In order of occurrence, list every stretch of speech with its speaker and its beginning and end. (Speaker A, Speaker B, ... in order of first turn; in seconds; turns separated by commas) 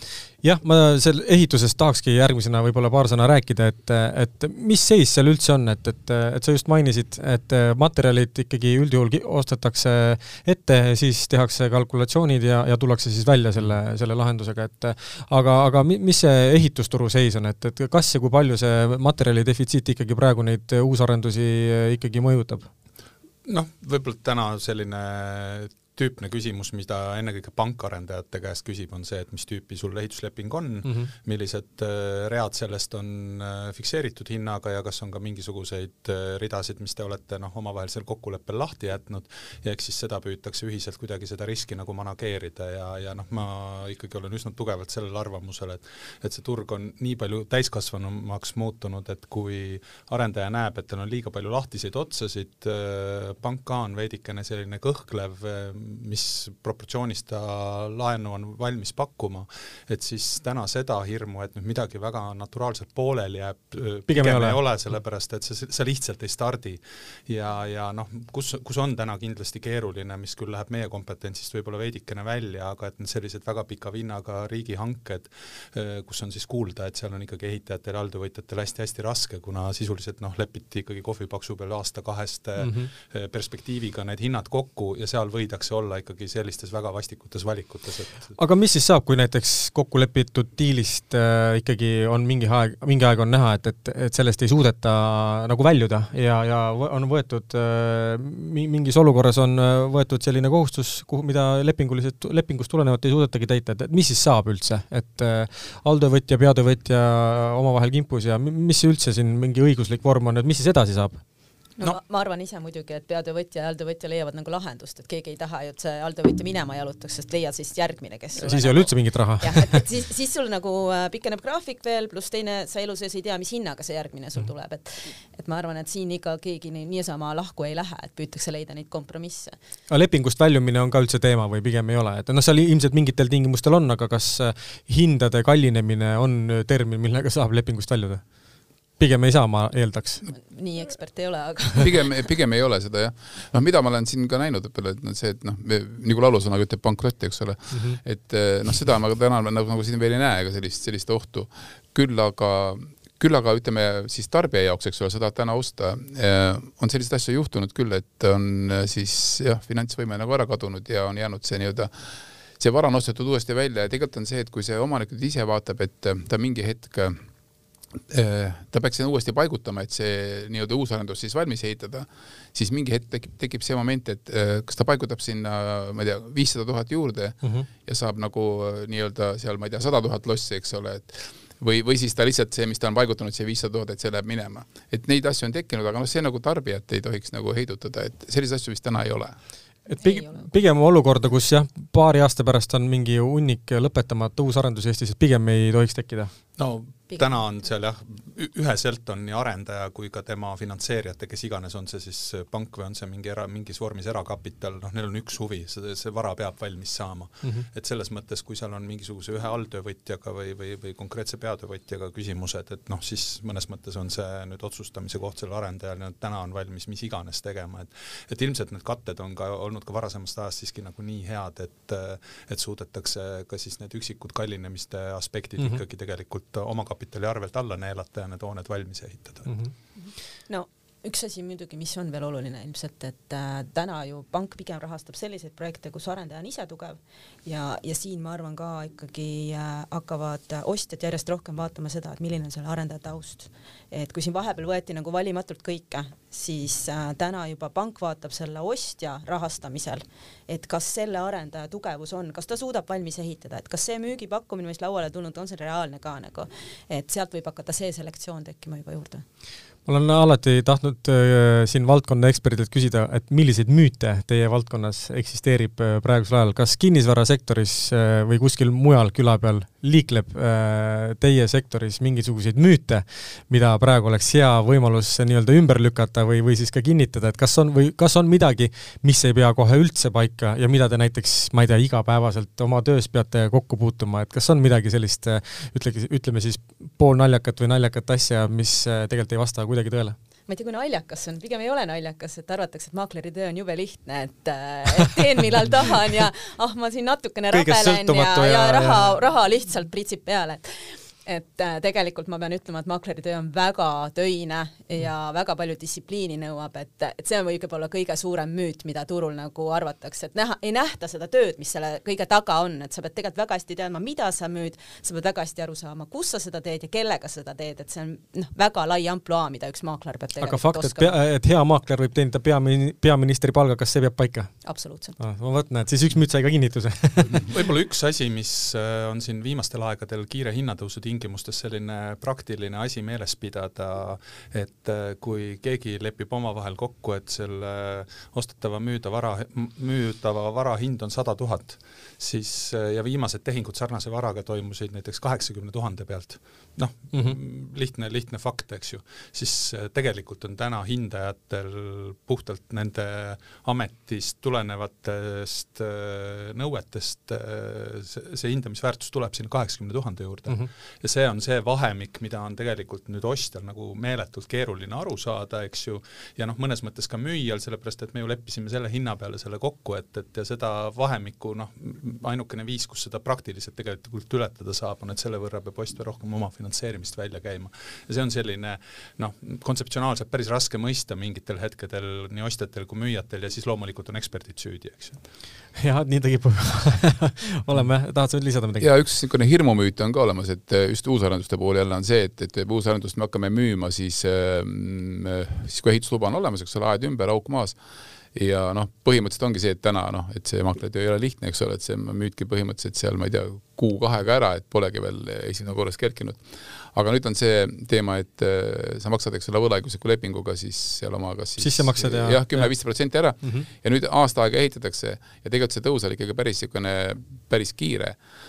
Speaker A: 0.4-22.7, Speaker B: 23.4-88.3, Speaker A: 30.8-31.1, Speaker A: 64.1-64.6, Speaker A: 82.6-82.9, Speaker A: 88.3-111.2, Speaker C: 111.8-129.6, Speaker A: 118.4-119.8, Speaker A: 129.9-138.2, Speaker A: 139.0-140.2, Speaker C: 140.2-142.1, Speaker D: 141.8-161.9, Speaker A: 147.7-148.0, Speaker D: 162.6-167.2, Speaker D: 168.1-189.3, Speaker A: 189.9-196.3, Speaker C: 190.0-190.4, Speaker B: 196.6-229.5, Speaker A: 229.4-229.7, Speaker C: 229.9-259.2, Speaker A: 259.9-290.1, Speaker C: 290.5-321.1, Speaker A: 297.5-299.1, Speaker A: 320.4-324.6, Speaker C: 324.6-325.2, Speaker A: 325.2-327.4, Speaker B: 327.4-385.2, Speaker A: 385.8-388.9, Speaker D: 388.8-397.8, Speaker D: 398.3-418.2, Speaker A: 411.6-412.7, Speaker A: 413.4-413.7